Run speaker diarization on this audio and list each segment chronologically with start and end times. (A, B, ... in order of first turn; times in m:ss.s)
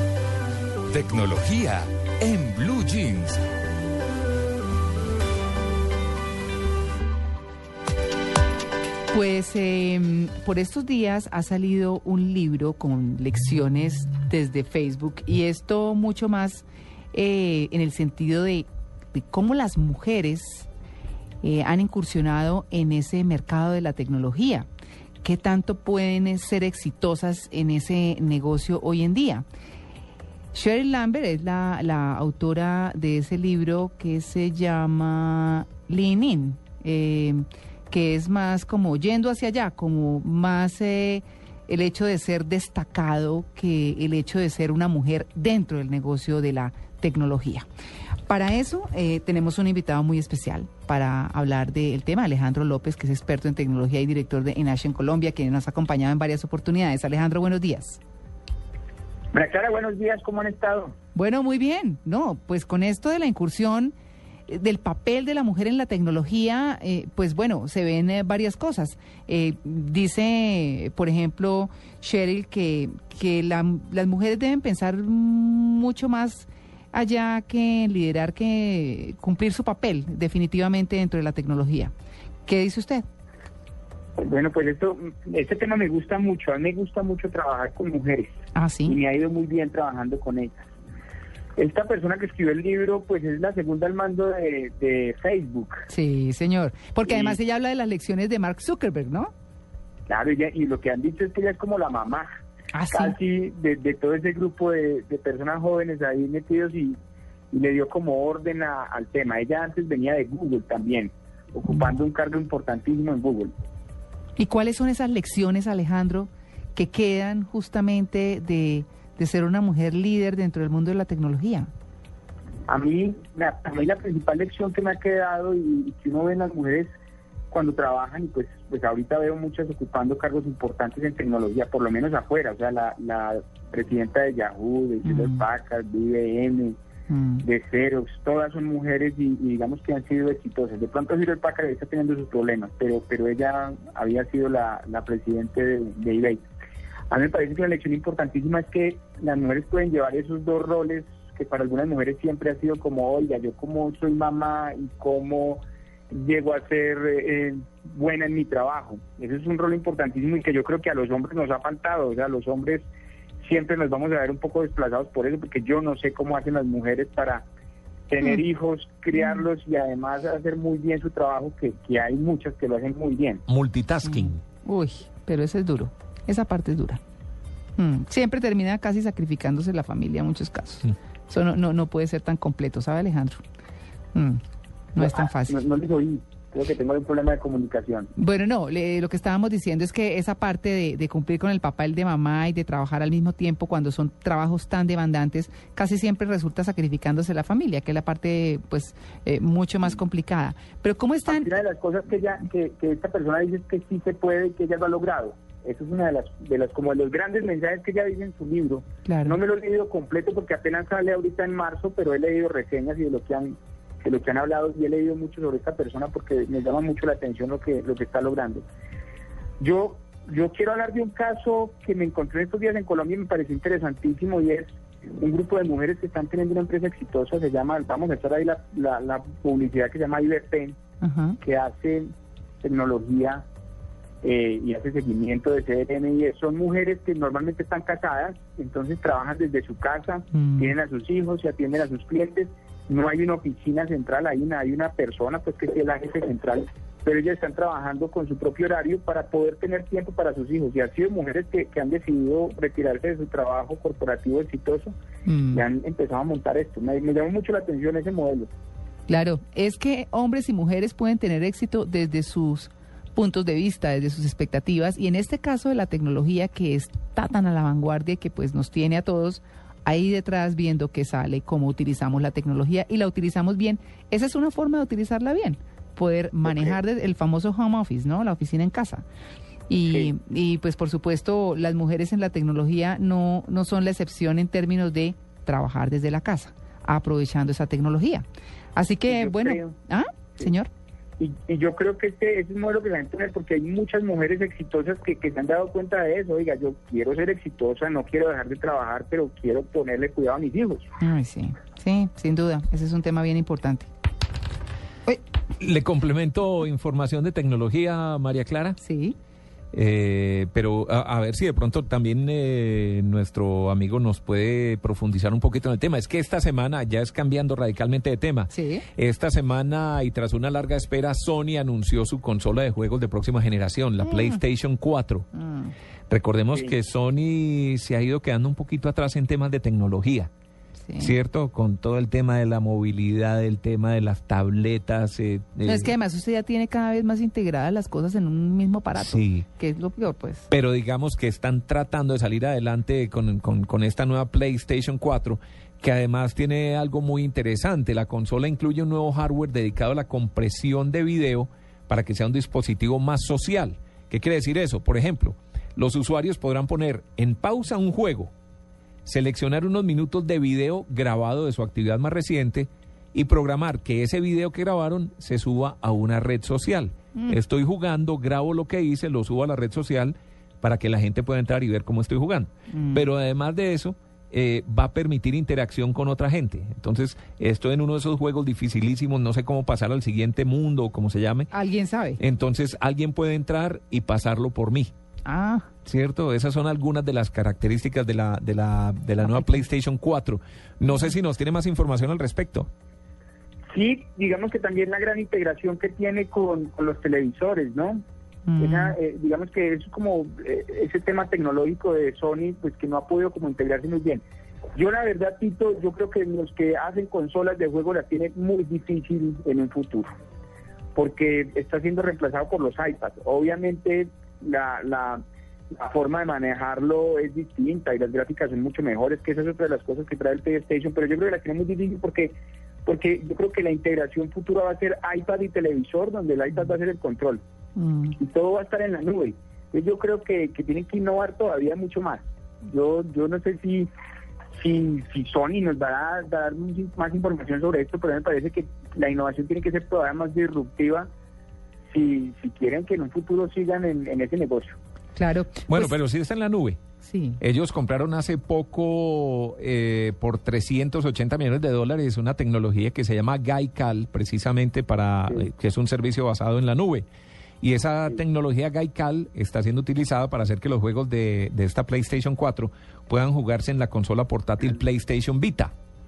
0:00.9-0:03.4 A
0:09.1-0:20.7 B
0:21.4-0:24.7 B
0:25.2-0:29.4 B
0:30.5-0:47.7 B
0:48.3-0:58.0 B
0:59.3-1:01.0 C
1:01.2-1:03.9 B
1:04.5-1:21.9 B
1:22.5-1:23.0 B
1:24.2-1:28.3 C
1:28.5-1:29.0 B
1:28.9-1:30.7 C
1:31.6-1:35.9 C
1:35.9-1:39.3 B
1:37.1-1:37.4 C
1:40.1-1:42.3 C
1:42.7-1:43.2 B
1:42.9-1:47.0 C
1:47.5-1:53.5 C
1:54.4-2:01.7 B
2:02.7-2:06.9 C
2:07.5-2:16.8 C
2:15.0-2:15.4 B
2:17.1-2:17.4 B
2:17.4-2:26.5 C
2:27.1-2:42.9 C
2:43.4-2:47.4 C
2:48.1-2:53.4 C
2:49.2-2:49.4 B
2:53.5-2:54.4 D
2:54.0-2:57.0 B
2:57.8-3:03.4 B
3:04.1-3:04.4 B
3:05.0-3:05.6 B
3:05.0-3:08.1 C
3:08.2-3:21.5 B
3:21.3-3:38.6 C
3:29.0-3:29.4 B
3:39.6-3:44.7 C
3:45.2-3:50.8 C
3:51.0-3:51.4 B
3:51.4-3:52.1 C
3:52.6-3:53.4 C
3:54.2-4:15.0 C
4:00.3-4:00.8 B
4:15.2-4:15.6 B
4:15.5-4:18.5 C
4:19.1-4:39.0 B
4:39.7-4:50.7 B
4:49.1-4:49.8 C
4:51.2-5:00.9 C
5:01.0-5:03.9 B
5:05.6-5:08.8 D
5:08.8-5:09.2 B
5:09.7-5:25.3 D
5:18.5-5:18.9 B
5:24.0-5:24.4 B
5:25.3-5:25.7 B
5:26.1-5:30.3 D
5:30.9-5:31.1 B
5:31.0-5:35.9 D
5:35.6-5:40.5 B
5:39.0-5:39.5 D
5:40.5-5:58.3 D
5:59.0-6:21.5 D
6:12.7-6:13.0 B
6:21.5-6:22.2 B
6:22.2-6:24.9 D
6:25.3-6:25.7 B
6:25.9-6:32.7 D
6:33.7-6:38.0 C
6:38.5-6:39.0 B
6:38.6-6:44.2 C
6:44.8-6:50.1 C
6:51.0-7:02.4 C
7:02.9-7:07.4 C
7:07.8-7:08.2 B
7:08.2-7:13.9 C
7:14.6-7:21.1 C
7:21.9-7:24.8 C
7:25.2-7:26.0 B
7:25.7-7:26.8 D
7:27.0-7:27.4 B
7:27.4-7:37.1 D
7:37.6-7:45.7 D